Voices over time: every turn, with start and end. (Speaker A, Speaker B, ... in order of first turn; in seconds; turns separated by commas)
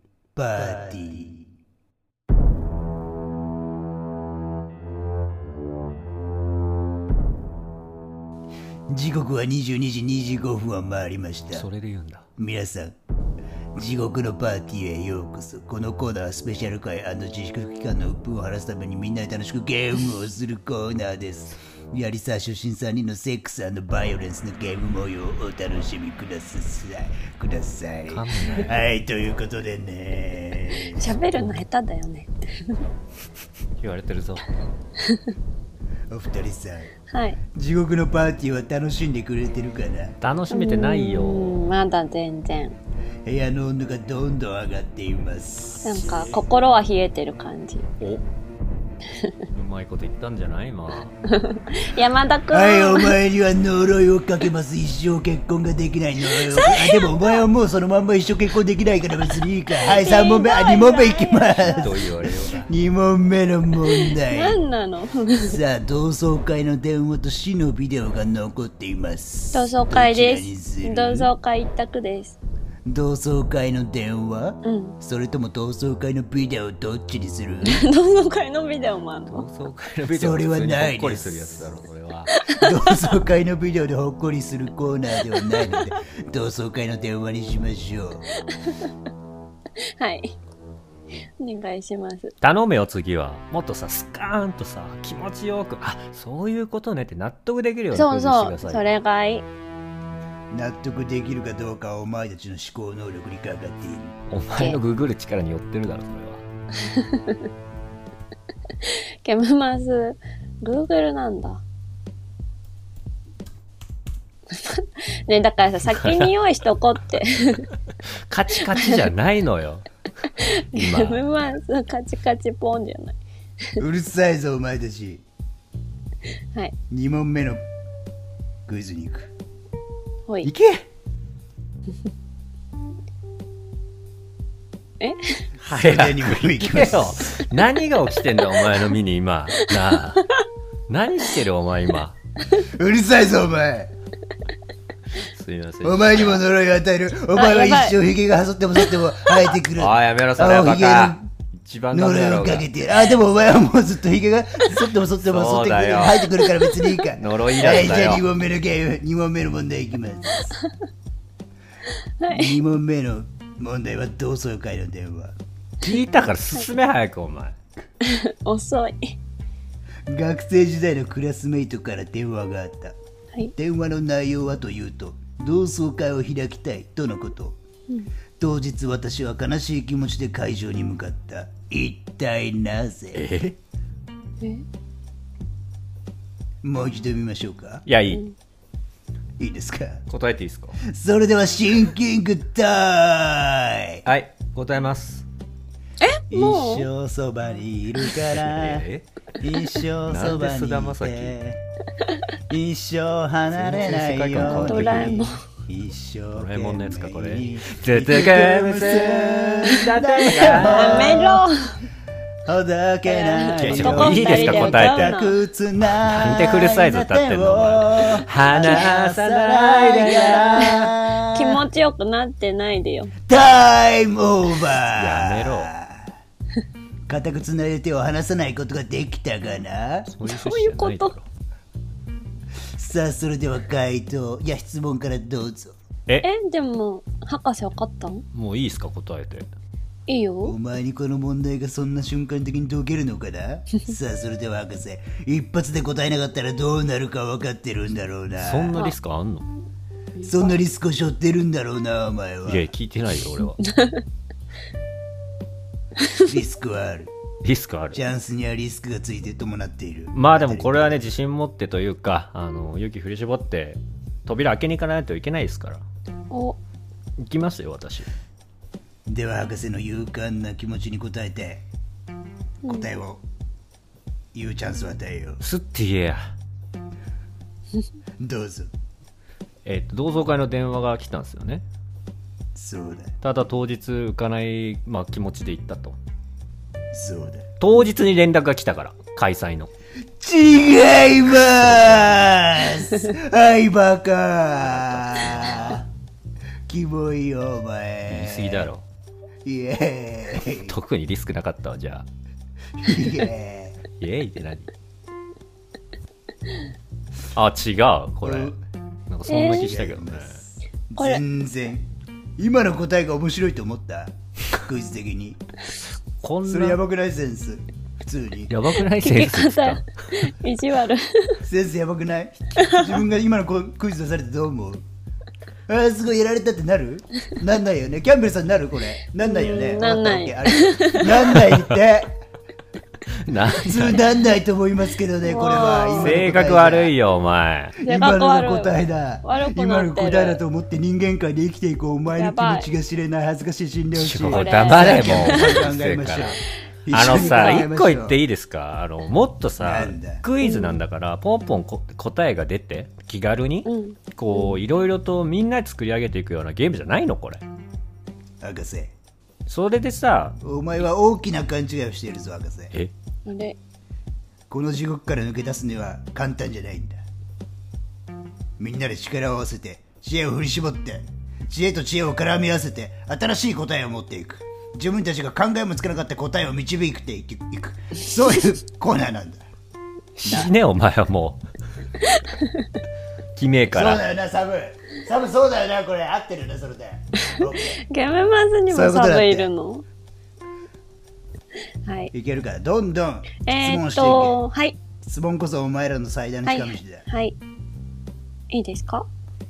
Speaker A: 0.3-1.4, Speaker A: 8.9-11.7, Speaker B: 11.5-12.2, Speaker A: 12.4-12.9, Speaker A: 13.8-31.2, Speaker B: 28.1-28.7, Speaker C: 30.8-32.8, Speaker B: 33.8-34.6, Speaker A: 36.1-36.9, Speaker C: 37.1-37.4, Speaker A: 37.5-40.2, Speaker B: 40.2-41.6, Speaker C: 40.5-42.7, Speaker A: 43.2-46.4, Speaker C: 45.8-47.9, Speaker B: 49.5-51.1, Speaker C: 51.3-53.2, Speaker A: 52.5-64.6, Speaker C: 56.3-57.4, Speaker C: 59.8-61.9, Speaker B: 61.7-62.7, Speaker C: 63.9-65.6, Speaker A: 65.4-71.3, Speaker C: 69.5-72.4, Speaker A: 72.8-77.9, Speaker C: 74.6-75.0, Speaker C: 77.6-79.5, Speaker B: 79.3-82.4, Speaker A: 80.0-81.7, Speaker C: 82.3-83.2, Speaker A: 82.5-88.2, Speaker C: 85.3-85.8, Speaker C: 88.4-88.9, Speaker C: 90.0-90.3, Speaker C: 91.4-92.3, Speaker B: 92.4-98.8, Speaker C: 97.9-99.5, Speaker A: 100.5-104.2, Speaker B: 104.3-106.4, Speaker C: 104.5-104.8, Speaker C: 106.8-107.4, Speaker C: 108.8-111.6, Speaker C: 114.5-117.7, Speaker B: 115.9-116.3, Speaker B: 118.3-119.9, Speaker C: 118.7-119.0, Speaker C: 120.3-123.2, Speaker B: 120.4-121.2, Speaker A: 123.8-125.2, Speaker A: 126.9-127.6, Speaker A: 128.7-129.3, Speaker A: 130.4-130.8, Speaker C: 135.0-135.5, Speaker B: 135.6-140.3, Speaker A: 135.7-137.3, Speaker C: 138.4-138.8, Speaker B: 140.9-142.2, Speaker A: 142.5-143.9, Speaker B: 145.2-146.4, Speaker A: 145.8-151.3, Speaker C: 147.3-148.0, Speaker C: 148.9-149.5, Speaker B: 149.7-152.7, Speaker A: 151.9-160.6, Speaker B: 155.2-156.3, Speaker C: 156.6-156.8, Speaker B: 157.1-158.2, Speaker C: 162.2-162.6, Speaker A: 162.3-165.3, Speaker B: 165.8-167.6, Speaker C: 168.0-169.2, Speaker A: 170.1-172.9, Speaker A: 173.6-177.6, Speaker A: 178.4-183.2, Speaker B: 183.1-183.6, Speaker C: 184.4-184.7, Speaker A: 186.6-187.8, Speaker B: 187.8-188.2, Speaker C: 188.1-188.3, Speaker A: 189.4-190.0, Speaker B: 190.1-190.8, Speaker A: 190.8-194.0, Speaker B: 194.0-195.2, Speaker C: 196.0-196.9, Speaker A: 196.3-201.6, Speaker B: 198.1-199.1, Speaker B: 200.1-201.4, Speaker A: 202.5-211.4, Speaker B: 203.5-205.3, Speaker C: 204.3-205.4, Speaker B: 206.3-211.4, Speaker C: 210.3-211.8, Speaker A: 212.4-221.6, Speaker C: 213.1-215.4, Speaker B: 213.6-215.2, Speaker B: 215.8-220.8, Speaker C: 220.1-223.1, Speaker A: 223.3-226.1, Speaker B: 224.8-225.7, Speaker A: 227.1-230.1, Speaker B: 230.2-231.2, Speaker C: 230.2-231.2, Speaker A: 232.6-235.7, Speaker C: 236.2-238.2, Speaker B: 238.3-239.5, Speaker C: 240.1-240.6, Speaker A: 240.4-248.8, Speaker B: 248.4-249.5, Speaker C: 250.2-250.5, Speaker A: 250.2-252.7, Speaker B: 252.5-253.6, Speaker C: 253.7-254.0, Speaker C: 256.0-256.3, Speaker A: 256.1-257.1, Speaker B: 257.4-258.0, Speaker A: 257.9-261.1, Speaker B: 260.1-265.8, Speaker C: 266.3-266.6, Speaker B: 267.2-268.1, Speaker A: 269.1-271.6, Speaker A: 272.6-273.2, Speaker A: 274.3-275.4, Speaker B: 275.4-276.3, Speaker A: 278.2-278.7, Speaker B: 279.6-281.6, Speaker A: 282.5-283.1, Speaker B: 283.2-286.0, Speaker A: 286.9-287.5, Speaker B: 287.6-289.7, Speaker A: 290.2-295.9, Speaker B: 291.4-292.2, Speaker B: 294.7-295.8, Speaker A: 296.7-298.7, Speaker B: 298.1-298.8, Speaker A: 299.4-300.8, Speaker B: 300.3-302.1, Speaker A: 302.8-303.8, Speaker B: 304.0-304.7, Speaker B: 307.3-308.5, Speaker A: 308.2-308.6, Speaker B: 309.1-310.4, Speaker C: 309.3-309.7, Speaker A: 309.5-311.9, Speaker A: 312.4-315.4, Speaker B: 316.2-316.8, Speaker A: 316.4-318.6, Speaker B: 318.5-319.9, Speaker C: 319.0-321.4, Speaker A: 321.4-324.8, Speaker C: 322.6-323.0, Speaker A: 325.7-332.2, Speaker C: 329.2-331.5, Speaker B: 333.2-334.1, Speaker A: 333.6-336.9, Speaker C: 335.2-336.2, Speaker B: 335.9-337.8, Speaker C: 337.8-340.4, Speaker A: 337.8-348.2, Speaker C: 342.1-342.7, Speaker B: 343.9-357.4, Speaker C: 344.3-345.6, Speaker C: 347.1-347.6, Speaker A: 349.6-350.2, Speaker C: 350.4-350.8, Speaker C: 353.6-354.6, Speaker A: 358.4-358.9, Speaker B: 359.5-360.4, Speaker A: 360.4-362.7, Speaker C: 363.2-363.6, Speaker A: 364.5-367.0, Speaker A: 368.6-379.4, Speaker B: 380.1-381.4, Speaker A: 380.2-380.5, Speaker C: 382.2-382.6, Speaker B: 383.4-384.0, Speaker A: 383.7-387.8, Speaker C: 387.4-389.8, Speaker A: 388.7-389.5, Speaker C: 391.9-392.1, Speaker A: 392.1-394.4, Speaker C: 393.4-394.8, Speaker A: 395.0-397.0, Speaker C: 396.4-397.4, Speaker C: 398.5-399.1